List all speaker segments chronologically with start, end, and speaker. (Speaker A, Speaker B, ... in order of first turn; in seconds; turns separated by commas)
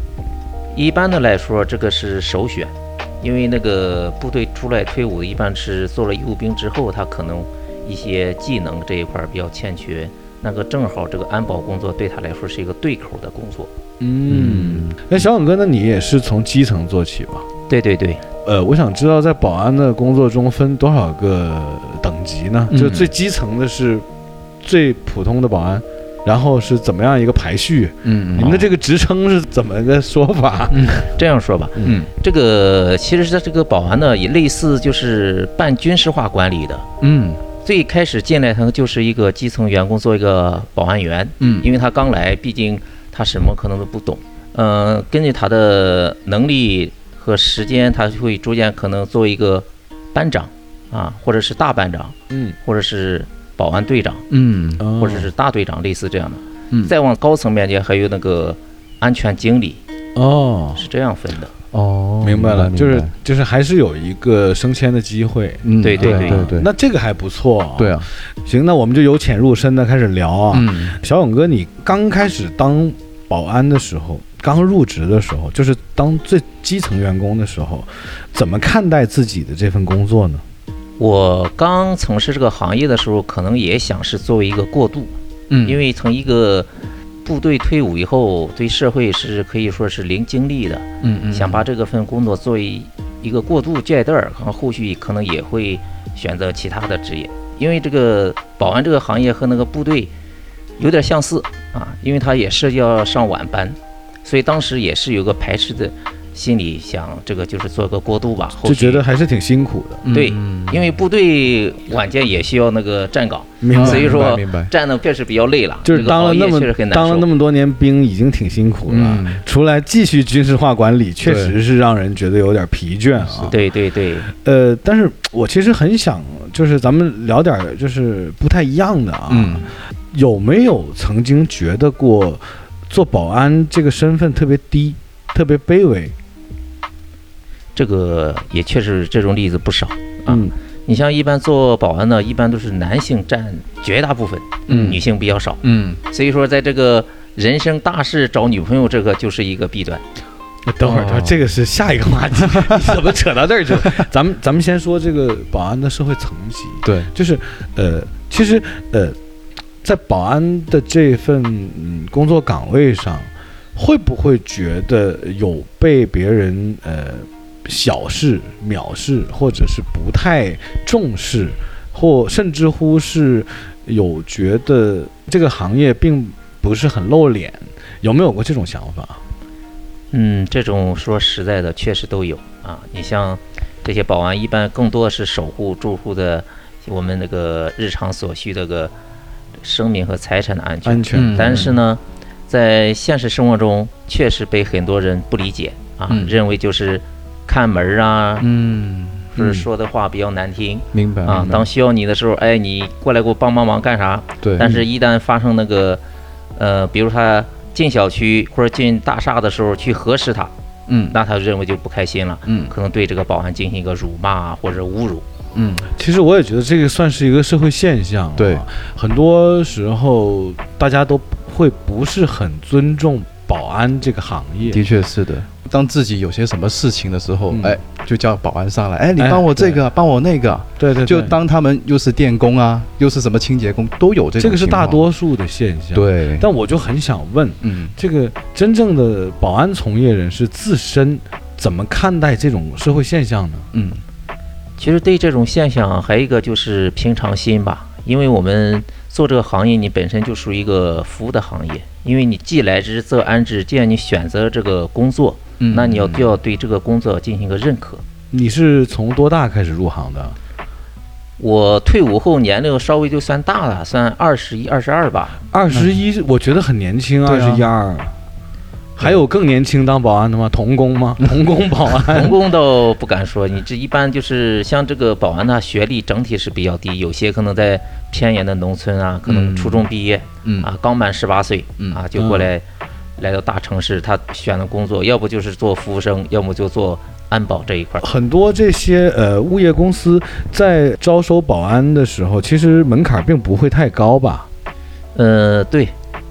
Speaker A: 0.7-13.7, Speaker B: 14.0-17.5, Speaker C: 14.3-15.0, Speaker A: 17.7-18.2, Speaker B: 18.4-24.1, Speaker C: 22.7-23.1, Speaker B: 24.6-31.0, Speaker C: 28.1-28.7, Speaker C: 30.7-31.0, Speaker A: 31.1-36.9, Speaker C: 31.8-32.1, Speaker C: 37.0-37.4, Speaker A: 37.6-54.3, Speaker C: 41.4-41.7, Speaker B: 52.3-52.6, Speaker C: 54.3-54.9, Speaker B: 54.8-55.3, Speaker A: 55.0-59.8, Speaker B: 60.1-60.9, Speaker A: 60.8-61.5, Speaker C: 61.7-63.1, Speaker B: 62.2-80.4, Speaker C: 65.6-66.7, Speaker A: 65.8-66.5, Speaker C: 67.8-68.1, Speaker C: 70.5-71.0, Speaker A: 81.0-86.7, Speaker C: 85.5-85.8, Speaker A: 87.2-100.1, Speaker C: 91.0-91.7, Speaker A: 100.8-109.0, Speaker B: 108.6-110.0, Speaker C: 110.0-110.9, Speaker A: 110.1-117.3, Speaker B: 113.6-114.2, Speaker C: 113.7-114.7, Speaker B: 115.8-123.6, Speaker C: 118.9-119.4, Speaker C: 121.2-121.5, Speaker C: 123.2-123.5, Speaker A: 123.5-124.3, Speaker B: 124.3-136.2, Speaker C: 129.3-129.7, Speaker A: 137.8-150.0, Speaker B: 140.3-140.5, Speaker C: 144.7-145.0, Speaker C: 145.6-146.0, Speaker B: 150.7-159.2, Speaker C: 150.8-151.4, Speaker C: 152.4-153.0, Speaker C: 156.8-157.1, Speaker B: 159.8-179.2, Speaker A: 180.1-188.9, Speaker A: 189.6-198.5, Speaker B: 190.8-191.7, Speaker C: 191.1-191.8, Speaker C: 196.1-196.4, Speaker C: 198.4-199.3, Speaker A: 199.3-206.0, Speaker B: 199.4-199.7, Speaker C: 200.9-201.7, Speaker C: 204.4-204.9, Speaker A: 206.6-210.5, Speaker C: 210.9-211.2, Speaker A: 211.1-215.2, Speaker C: 212.5-212.7, Speaker C: 215.5-215.9, Speaker B: 215.9-224.8, Speaker C: 218.4-218.6, Speaker C: 224.7-235.1, Speaker B: 227.5-227.8, Speaker B: 229.2-229.8, Speaker B: 230.8-231.4, Speaker B: 234.4-243.7, Speaker C: 235.9-236.5, Speaker C: 237.6-237.9, Speaker C: 243.7-244.0, Speaker A: 244.8-258.0, Speaker C: 255.6-256.4, Speaker B: 258.3-260.4, Speaker A: 261.4-265.4, Speaker B: 265.5-268.1, Speaker C: 265.7-266.0, Speaker C: 267.2-267.6, Speaker B: 269.0-272.4, Speaker A: 272.1-282.6, Speaker C: 279.3-279.9, Speaker C: 280.4-280.7, Speaker B: 282.1-282.5, Speaker A: 283.2-288.1, Speaker B: 288.0-294.5, Speaker A: 295.1-295.9